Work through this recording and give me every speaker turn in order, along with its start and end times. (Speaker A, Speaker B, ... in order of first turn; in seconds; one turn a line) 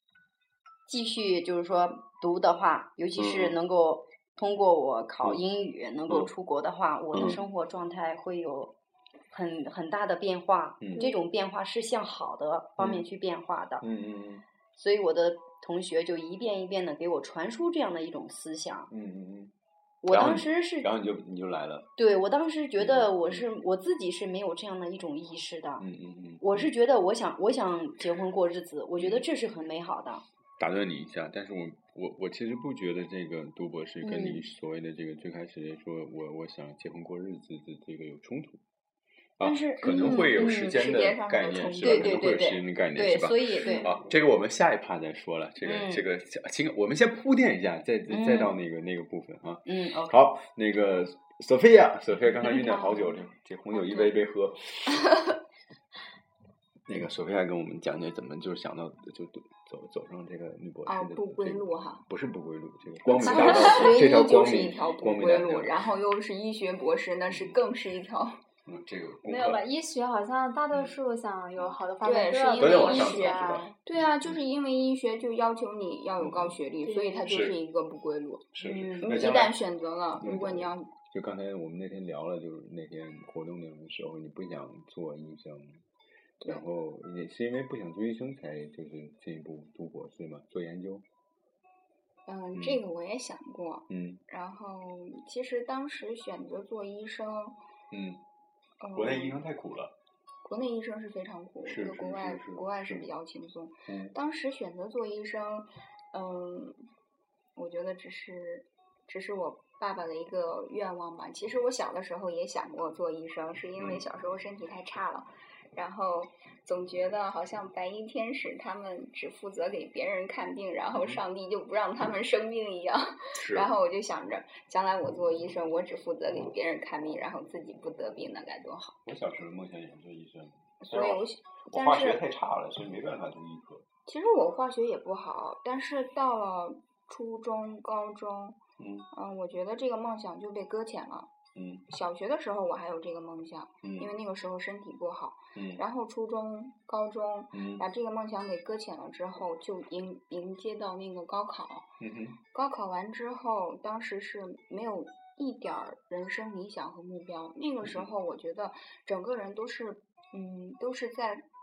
Speaker A: 0.9-8.8
Speaker B: 3.2-3.6
Speaker B: 7.1-7.4
Speaker A: 9.3-13.8
Speaker B: 10.8-11.1
Speaker B: 13.8-14.4
Speaker A: 14.7-18.9
Speaker B: 18.9-19.5
Speaker A: 20.0-20.9
Speaker B: 20.1-21.9
Speaker A: 22.0-25.9
Speaker B: 22.8-23.5
Speaker B: 25.8-26.7
Speaker A: 26.4-30.2
Speaker B: 29.0-29.3
Speaker B: 30.6-38.6
Speaker A: 34.0-34.4
Speaker B: 39.4-55.1
Speaker A: 39.4-40.8
Speaker C: 39.9-42.6
Speaker A: 41.8-43.9
Speaker A: 45.6-46.0
Speaker A: 48.1-48.5
Speaker A: 49.7-50.2
Speaker B: 56.9-65.8
Speaker C: 60.9-62.0
Speaker A: 63.0-64.7
Speaker C: 63.2-68.3
Speaker B: 67.3-67.6
Speaker B: 68.7-69.6
Speaker D: 69.2-73.8
Speaker C: 72.0-78.5
Speaker B: 72.6-73.7
Speaker B: 76.2-76.6
Speaker D: 76.8-77.5
Speaker B: 77.3-77.5
Speaker B: 78.5-79.6
Speaker A: 78.6-79.2
Speaker C: 79.0-80.9
Speaker B: 80.2-85.8
Speaker B: 86.4-91.0
Speaker C: 92.3-97.6
Speaker B: 92.5-92.8
Speaker B: 93.9-94.2
Speaker B: 97.9-98.2
Speaker C: 98.8-99.4
Speaker B: 98.9-100.0
Speaker C: 100.4-106.8
Speaker B: 101.7-103.1
Speaker B: 103.9-104.1
Speaker C: 107.6-129.0
Speaker B: 113.8-114.0
Speaker B: 120.9-121.2
Speaker B: 123.3-123.7
Speaker B: 129.1-133.8
Speaker C: 130.8-132.2
Speaker C: 134.1-138.6
Speaker B: 138.8-139.1
Speaker C: 139.1-141.3
Speaker B: 141.6-141.8
Speaker C: 141.9-151.9
Speaker B: 143.8-144.1
Speaker B: 145.6-145.8
Speaker B: 147.5-147.8
Speaker B: 152.0-152.4
Speaker C: 152.5-161.4
Speaker B: 157.8-158.1